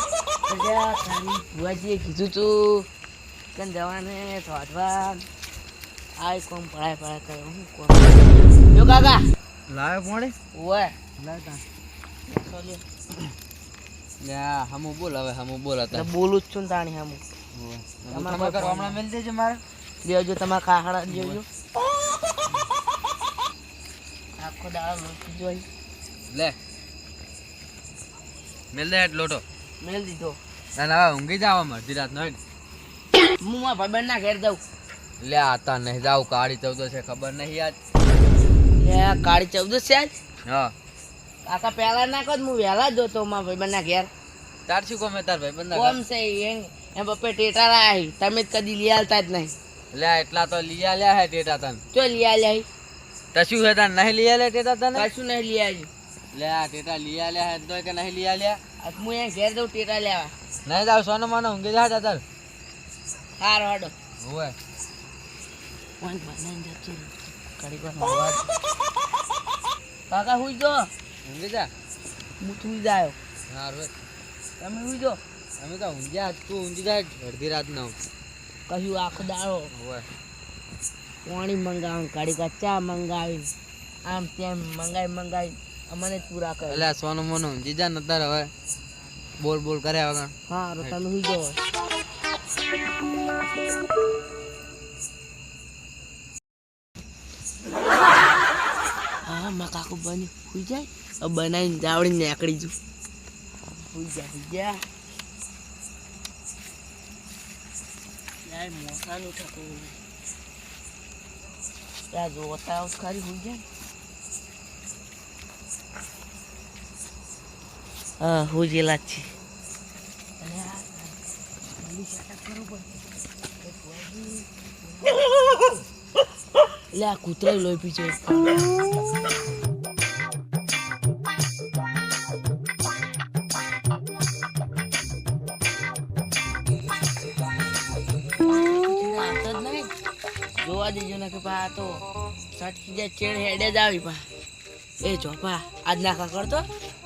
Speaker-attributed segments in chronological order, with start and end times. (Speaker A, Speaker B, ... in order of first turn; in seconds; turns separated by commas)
Speaker A: 0.5-2.9, Speaker A: 3.5-5.3, Speaker A: 6.2-9.2, Speaker B: 9.7-10.3, Speaker A: 10.5-10.9, Speaker B: 11.2-11.6, Speaker A: 12.3-12.8, Speaker B: 14.2-16.1, Speaker A: 15.9-17.2, Speaker B: 17.5-19.6, Speaker A: 18.1-19.0, Speaker A: 20.0-21.5, Speaker B: 21.1-21.4, Speaker A: 24.4-25.7, Speaker B: 26.3-26.6, Speaker B: 28.7-29.4, Speaker A: 29.8-30.4, Speaker B: 30.8-32.4, Speaker A: 33.4-34.6, Speaker B: 35.2-37.8, Speaker A: 38.8-40.1, Speaker B: 40.5-40.7, Speaker A: 41.5-44.1, Speaker B: 44.7-46.0, Speaker A: 45.7-49.5, Speaker B: 49.9-51.8, Speaker A: 51.9-52.7, Speaker B: 53.3-55.1, Speaker A: 54.9-55.9, Speaker B: 56.3-58.6, Speaker A: 58.8-60.3, Speaker B: 60.7-62.2, Speaker A: 63.4-63.9, Speaker B: 64.2-64.6, Speaker A: 66.0-68.5, Speaker A: 70.1-70.9, Speaker B: 71.2-71.7, Speaker A: 72.4-73.2, Speaker B: 73.5-73.9, Speaker A: 74.6-75.2, Speaker B: 75.6-78.0, Speaker A: 78.7-79.7, Speaker B: 79.7-80.1, Speaker A: 81.2-83.5, Speaker A: 84.0-86.9, Speaker B: 86.7-88.5, Speaker B: 89.4-90.9, Speaker A: 90.5-91.6, Speaker A: 99.3-102.8, Speaker A: 103.6-104.8, Speaker A: 108.5-109.2, Speaker A: 112.1-113.7, Speaker A: 118.2-119.3, Speaker A: 120.4-121.2, Speaker A: 121.8-122.9, Speaker A: 123.6-125.3, Speaker A: 126.9-128.8, Speaker A: 138.4-139.9, Speaker A: 140.6-142.0, Speaker A: 142.6-144.2, Speaker A: 145.0-146.7